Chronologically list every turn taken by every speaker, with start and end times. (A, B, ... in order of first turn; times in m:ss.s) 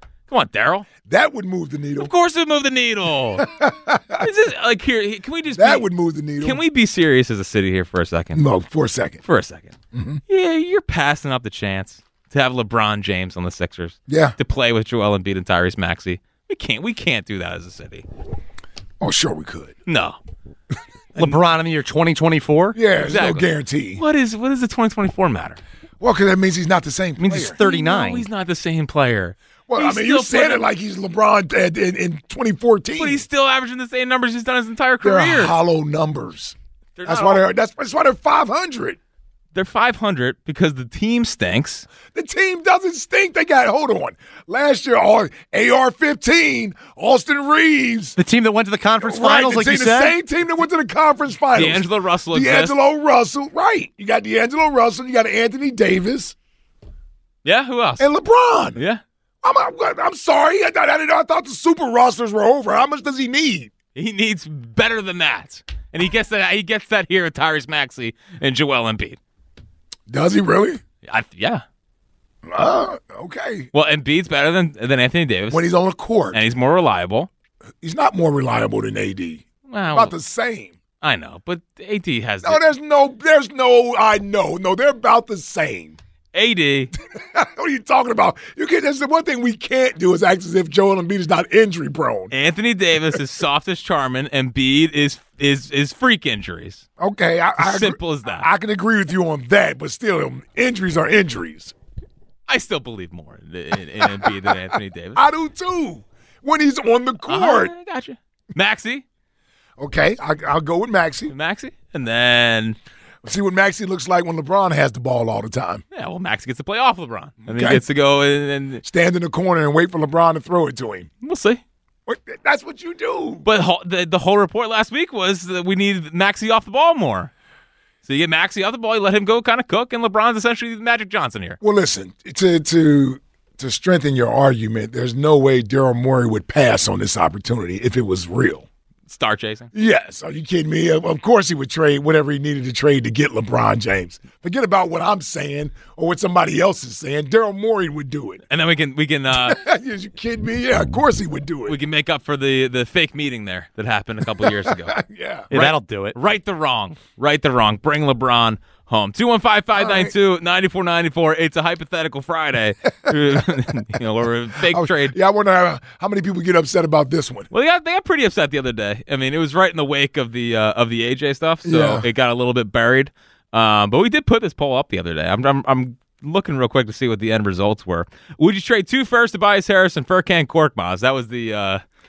0:00.3-0:00.9 A
0:01.0-0:02.1 B
0:02.0-0:03.5 A
0:03.4-0:04.3 B
0:04.2-0:05.8 A
0:05.5-0:06.6 B
0:06.4-0:08.4 A
0:08.3-0:09.2 B
0:09.2-0:09.7 A
0:09.9-0:10.2 B
0:10.3-0:18.0 A
0:14.1-0:14.4 B
0:19.0-0:19.7 B
0:19.8-0:20.2 A
0:21.2-0:22.8 C
0:22.7-0:24.0 B
0:23.0-0:25.6 A
0:26.0-0:27.6 B
0:27.2-0:30.7 A
0:27.3-0:28.2 C
0:29.7-0:33.2 B
0:33.0-0:35.5 A
0:35.0-0:39.0 B
0:37.0-0:37.4 A
0:39.5-0:41.9 A
0:42.1-0:48.2 B
0:48.2-0:50.1 C
0:49.0-0:56.3 B
0:51.5-0:52.7 A
0:57.4-0:58.1 A
0:58.0-0:58.8 B
0:58.8-0:59.0 A
0:59.4-1:03.7 B
1:03.9-1:09.2 A
1:10.1-1:10.8 B
1:11.0-1:11.6 A
1:12.4-1:13.7 B
1:13.7-1:15.7 A
1:15.5-1:16.4 B
1:16.3-1:17.3 A
1:17.8-1:20.7 B
1:19.7-1:20.1 A
1:21.0-1:22.6 A
1:22.4-1:26.0 B
1:26.3-1:26.9 A
1:27.0-1:32.3 B
1:32.3-1:36.8 A
1:37.0-1:41.7 B
1:37.6-1:38.4 A
1:42.5-1:45.2 A
1:44.0-1:44.6 B
1:45.1-1:47.7 B
1:47.2-1:49.0 A
1:49.8-1:51.3 B
1:51.3-1:52.8 A
1:53.2-1:55.8 B
1:55.9-1:58.8 A
1:57.5-1:57.8 B
1:58.8-2:01.1 B
2:01.2-2:01.6 A
2:02.0-2:03.4 B
2:03.4-2:07.3 A
2:08.0-2:11.6 A
2:11.6-2:18.6 B
2:19.1-2:19.7 A
2:19.7-2:28.4 B
2:28.5-2:29.6 A
2:29.3-2:31.8 B
2:31.7-2:35.0 A
2:34.4-2:35.5 B
2:35.5-2:36.2 C
2:35.5-2:45.2 A
2:39.7-2:40.1 B
2:43.1-2:43.6 B
2:44.7-2:47.5 B
2:47.5-3:01.8 A
2:51.6-2:52.0 B